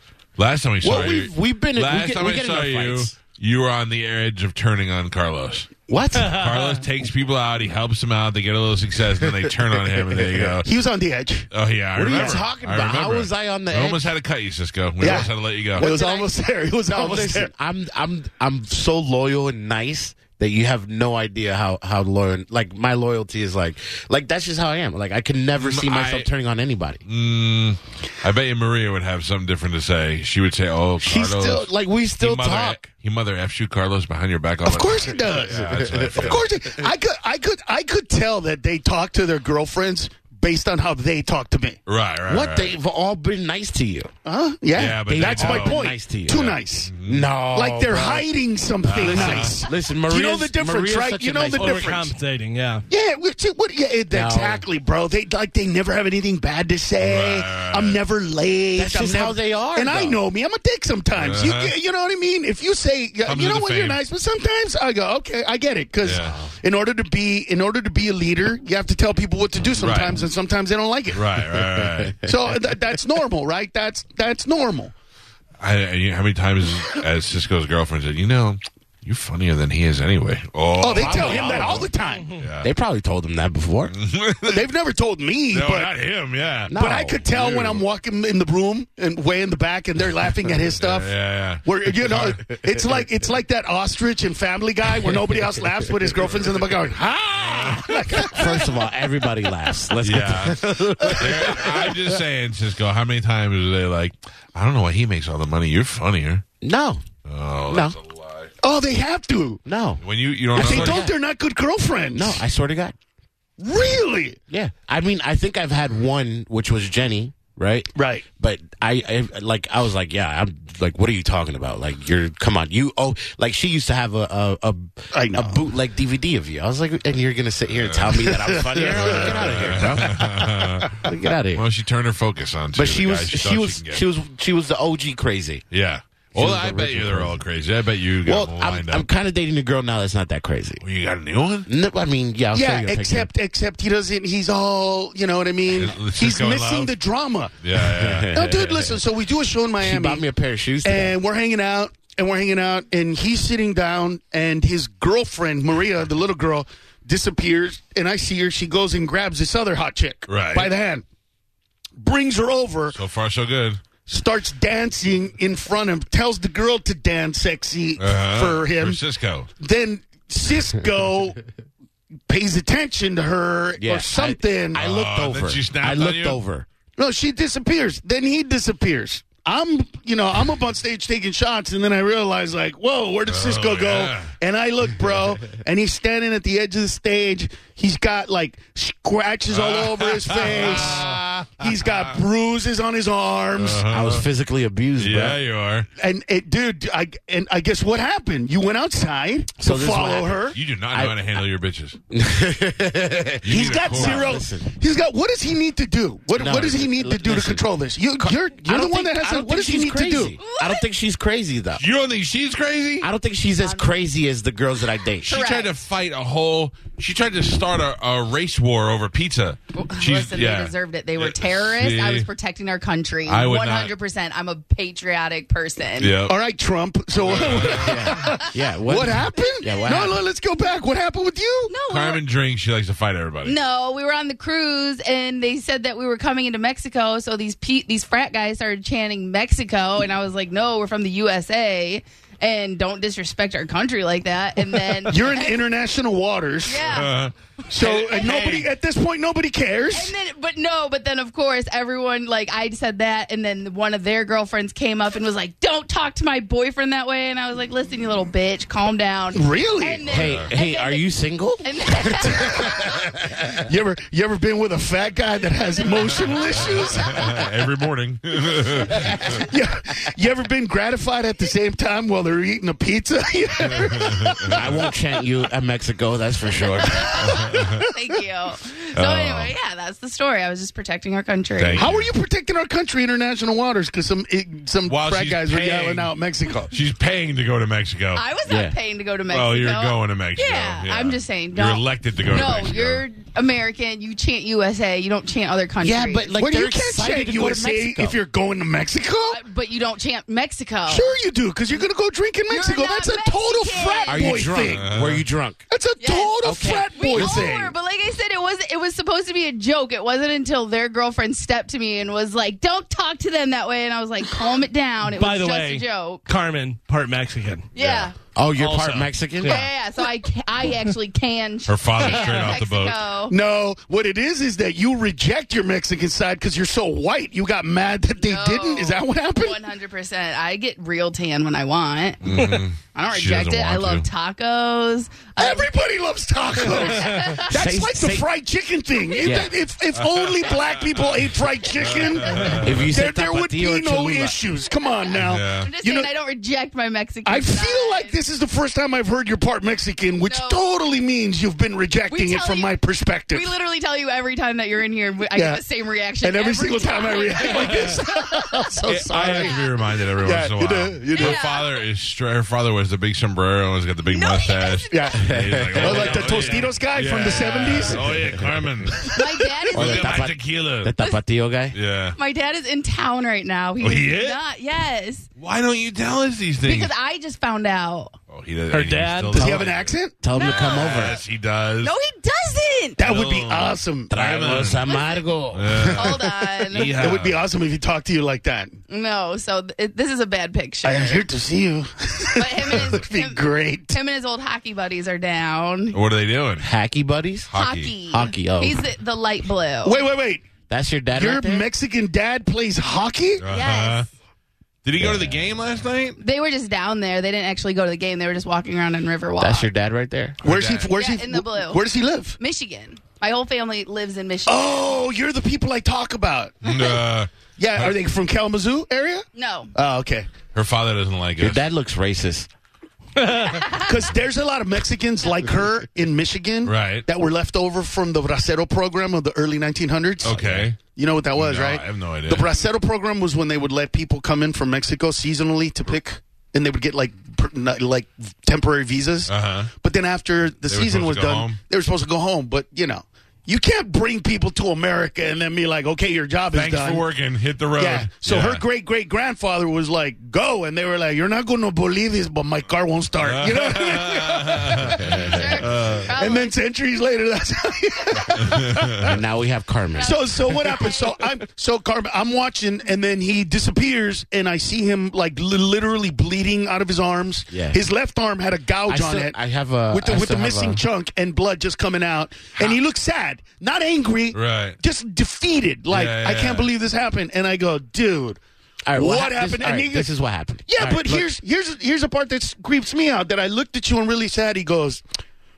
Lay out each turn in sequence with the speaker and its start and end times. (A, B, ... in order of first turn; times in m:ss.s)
0:00.4-0:05.7 A
0:00.8-0:03.2 B
0:05.9-0:06.5 B
0:06.2-0:10.7 A
0:10.1-0:10.5 B
0:10.6-0:11.5 C
0:11.5-0:15.9 A
0:12.0-0:14.0 B
0:15.0-0:17.5 C
0:15.0-0:16.3 B
0:16.9-0:27.0 B
0:25.6-0:26.3 A
0:27.0-0:31.7 A
0:31.0-0:32.8 B
0:32.2-0:36.4 A
0:34.6-0:41.8 C
0:35.7-0:36.4 B
0:41.9-0:42.8 A
0:42.3-0:44.1 B
0:44.2-0:46.9 C
0:44.7-0:45.8 A
0:45.1-0:48.3 B
0:46.4-0:47.3 A
0:47.5-0:52.1 C
0:48.8-0:49.6 A
0:49.0-0:51.9 B
0:51.5-0:52.8 D
0:52.9-1:11.2 C
0:54.1-0:54.6 B
0:57.0-0:58.0 A
0:58.8-1:00.2 B
1:01.2-1:01.7 A
1:03.2-1:04.0 A
1:06.0-1:06.4 A
1:06.2-1:06.6 B
1:09.8-1:10.2 A
1:11.1-1:12.2 A
1:11.8-1:12.1 B
1:12.2-1:14.9 C
1:15.6-1:22.7 A
1:20.8-1:22.3 C
1:20.8-1:21.9 B
1:22.6-1:23.9 B
1:23.9-1:24.7 A
1:24.4-1:25.9 C
1:25.5-1:26.7 A
1:26.7-1:27.3 B
1:26.8-1:31.1 C
1:27.3-1:27.8 A
1:30.8-1:32.4 A
1:31.6-1:38.7 C
1:37.4-1:38.4 A
1:38.3-1:42.2 B
1:40.0-1:46.4 A
1:41.0-1:41.9 C
1:46.6-1:47.0 B
1:47.2-1:48.5 A
1:47.7-1:48.0 B
1:48.6-1:49.6 C
1:49.6-1:50.0 B
1:50.0-1:51.0 A
1:50.5-1:51.2 B
1:50.5-1:52.4 C
1:52.1-1:53.0 B
1:53.6-1:54.4 C
1:54.5-2:11.6 B
1:58.0-1:58.2 C
2:05.1-2:05.6 C
2:07.7-2:11.0 A
2:08.3-2:11.1 C
2:11.6-2:14.0 A
2:12.8-2:15.6 B
2:15.7-2:19.1 A
2:16.4-2:17.4 B
2:18.2-2:20.8 B
2:20.8-2:21.7 A
2:21.7-2:23.3 B
2:22.5-2:27.5 C
2:25.7-2:26.9 A
2:27.6-2:28.4 A
2:27.8-2:29.0 B
2:28.3-2:30.2 C
2:29.8-2:31.2 B
2:30.8-2:41.0 C
2:40.3-2:40.7 A
2:42.0-2:43.0 C
2:42.9-2:43.8 A
2:44.1-2:49.0 C
2:48.0-2:49.5 A
2:49.6-2:51.4 C
2:52.3-2:54.8 C
2:53.8-2:56.7 B
2:54.7-2:56.4 A
2:57.0-3:13.8 C
3:03.3-3:04.3 A
3:09.5-3:12.1 A
3:10.4-3:11.2 B
3:13.6-3:14.3 A
3:13.9-3:15.4 B
3:15.0-3:15.9 A
3:16.0-3:20.6 C
3:19.6-3:21.4 B
3:20.5-3:22.0 A
3:22.1-3:24.8 B
3:23.4-3:24.4 A
3:23.5-3:30.4 C
3:26.3-3:27.6 B
3:28.2-3:31.8 B
3:30.4-3:30.8 E
3:31.8-3:33.1 A
3:33.0-3:35.3 B
3:33.6-3:33.9 E
3:35.2-3:42.3 A
3:35.3-3:35.7 E
3:39.8-3:46.1 E
3:43.3-3:43.9 A
3:46.0-3:46.4 A
3:46.3-3:51.7 C
3:47.2-3:48.2 A
3:47.6-3:50.2 B
3:49.4-3:50.0 E
3:51.7-3:52.2 E
3:51.9-3:53.6 A
3:53.4-4:05.6 E
4:05.1-4:07.0 C
4:06.7-4:07.1 E
4:06.9-4:08.3 A
4:07.7-4:10.1 C
4:07.8-4:08.6 E
4:09.9-4:21.1 E
4:19.3-4:20.1 C
4:20.1-4:23.6 B
4:20.1-4:20.5 A
4:21.6-4:23.0 E
4:22.3-4:22.7 C
4:23.5-4:27.5 C
4:25.7-4:27.2 E
4:26.5-4:29.4 A
4:28.9-4:29.3 B
4:29.2-4:34.7 C
4:33.7-4:34.8 A
4:34.5-4:37.4 B
4:36.9-4:41.8 E
4:37.2-4:37.9 C
4:37.4-4:37.8 A
4:39.0-4:39.5 A
4:41.6-4:42.1 A
4:41.8-4:46.7 C
4:44.9-4:46.1 A
4:46.7-4:48.2 A
4:48.2-4:56.4 E
4:48.5-4:48.8 B
4:49.3-4:53.0 A
4:55.8-4:58.2 B
4:56.4-4:59.4 C
4:59.3-5:01.1 E
5:00.9-5:04.8 C
5:02.5-5:04.5 E
5:04.1-5:05.6 B
5:04.7-5:05.2 A
5:05.7-5:07.7 C
5:06.0-5:06.3 E
5:06.4-5:07.5 B
5:06.9-5:16.2 E
5:15.1-5:17.7 D
5:17.8-5:18.1 E
5:18.4-5:19.7 B
5:18.6-5:19.1 A
5:19.4-5:23.3 E
5:21.7-5:23.0 A
5:23.3-5:29.6 C
5:28.2-5:32.2 E
5:32.2-5:34.1 A
5:32.4-5:32.6 D
5:32.9-5:35.7 E
5:35.4-5:46.1 C
5:36.6-5:37.6 E
5:37.5-5:38.3 B
5:39.0-5:39.4 E
5:39.2-5:39.5 B
5:40.0-5:41.2 A
5:41.8-5:42.9 A
5:42.2-5:42.6 E
5:42.6-5:44.4 B
5:44.8-5:48.2 E
5:45.2-5:45.7 A
5:47.2-5:53.5 C
5:50.2-5:50.6 E
5:52.1-5:52.7 E
5:53.3-5:58.0 E
5:55.3-5:55.6 C
5:56.2-5:59.5 C
5:58.6-5:59.3 B
5:58.8-6:09.2 A
5:59.2-5:59.6 E
6:00.2-6:01.4 C
6:01.2-6:01.8 E
6:04.1-6:05.1 E
6:04.9-6:08.2 C
6:05.2-6:06.5 B
6:06.0-6:06.3 E
6:08.0-6:08.6 B
6:09.1-6:10.2 E
6:09.7-6:10.9 A
6:09.7-6:11.8 B
6:11.7-6:12.2 A
6:12.2-6:15.3 E
6:13.8-6:14.4 A
6:15.4-6:16.9 A
6:16.6-6:18.2 E
6:18.3-6:21.9 A
6:18.7-6:19.6 D
6:19.3-6:20.2 C
6:20.2-6:21.2 B
6:20.3-6:21.2 E
6:21.8-6:23.0 E
6:23.0-6:24.1 C
6:23.0-6:24.8 A
6:24.1-6:26.4 B
6:24.8-6:25.3 E
6:25.5-6:26.2 A
6:25.9-6:27.0 E
6:26.7-6:27.4 A
6:26.9-6:28.8 C
6:28.9-6:31.2 E
6:30.8-6:34.0 C
6:32.4-6:36.0 E
6:35.9-6:36.7 A
6:36.6-6:37.5 B
6:37.5-6:37.9 A
6:37.5-6:40.0 E
6:38.1-6:38.9 B
6:39.8-6:40.5 C
6:40.7-6:41.7 B
6:41.2-6:43.4 C
6:43.4-6:44.1 A
6:43.5-6:44.1 E
6:44.8-6:46.2 A
6:45.0-6:45.4 B
6:46.2-6:49.7 E
6:49.4-6:50.4 B
6:50.4-6:50.9 A
6:50.4-6:52.4 C
6:51.0-6:51.8 E
6:52.4-6:55.0 E
6:54.5-6:56.9 C
6:56.6-6:58.0 A
6:57.6-7:00.3 C
6:59.4-6:59.7 E
7:00.5-7:01.6 A
7:01.4-7:02.5 B
7:03.2-7:03.5 D
7:03.5-7:03.9 E
7:03.6-7:27.0 C
7:06.6-7:07.1 A
7:10.2-7:10.8 A
7:10.2-7:10.7 B
7:11.4-7:12.5 A
7:19.3-7:19.7 A
7:20.7-7:21.6 A
7:26.5-7:28.6 A
7:27.8-7:35.4 C
7:33.2-7:36.1 A
7:34.9-7:35.4 B
7:35.2-7:36.5 E
7:36.1-7:39.2 C
7:38.5-7:39.1 A
7:39.0-7:40.2 B
7:40.0-7:41.1 E
7:40.0-7:49.4 C
7:47.5-7:47.8 B
7:48.9-7:50.8 B
7:49.9-7:58.4 C
7:54.3-7:54.8 A
7:55.9-7:56.7 A
7:58.9-8:01.3 B
7:58.9-8:00.1 C
8:00.7-8:05.0 C